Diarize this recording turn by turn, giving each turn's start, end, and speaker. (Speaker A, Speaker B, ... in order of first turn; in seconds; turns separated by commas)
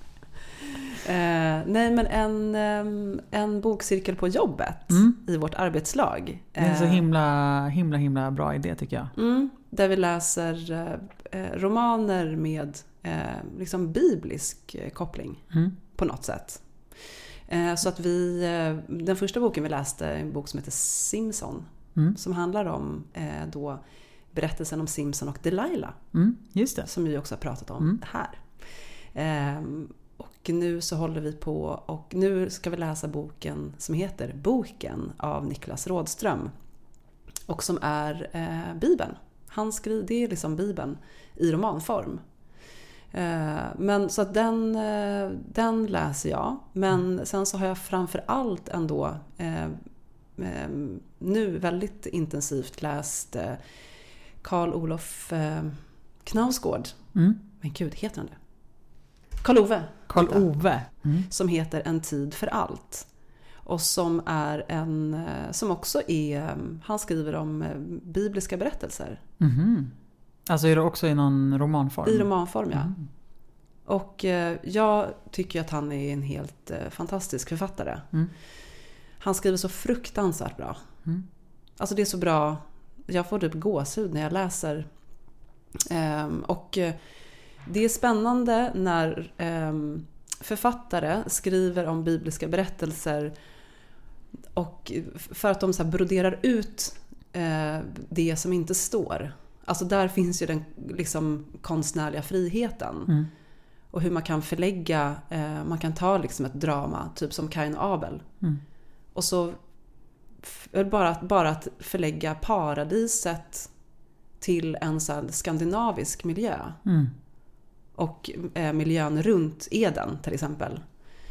Speaker A: 0.9-7.0, Speaker B: 4.9-5.2, Speaker B: 6.6-9.1, Speaker A: 9.1-16.7, Speaker A: 17.5-26.0, Speaker B: 26.1-26.9, Speaker A: 26.9-36.5, Speaker A: 37.5-42.2, Speaker A: 43.1-49.8, Speaker A: 50.4-53.6, Speaker A: 54.4-57.0, Speaker B: 57.1-57.4, Speaker A: 57.6-58.4, Speaker A: 59.4-60.5, Speaker B: 60.1-61.3, Speaker A: 61.2-63.1, Speaker A: 63.6-69.2, Speaker B: 69.4-69.9, Speaker B: 70.5-73.1, Speaker A: 72.0-72.9, Speaker A: 73.8-78.1, Speaker A: 79.2-80.8, Speaker A: 81.8-84.9, Speaker A: 85.8-87.0, Speaker A: 87.6-93.3, Speaker A: 94.5-103.2, Speaker A: 103.9-108.3, Speaker A: 109.1-109.6, Speaker A: 110.4-113.7, Speaker A: 114.4-116.8, Speaker B: 116.8-117.1, Speaker A: 118.0-120.8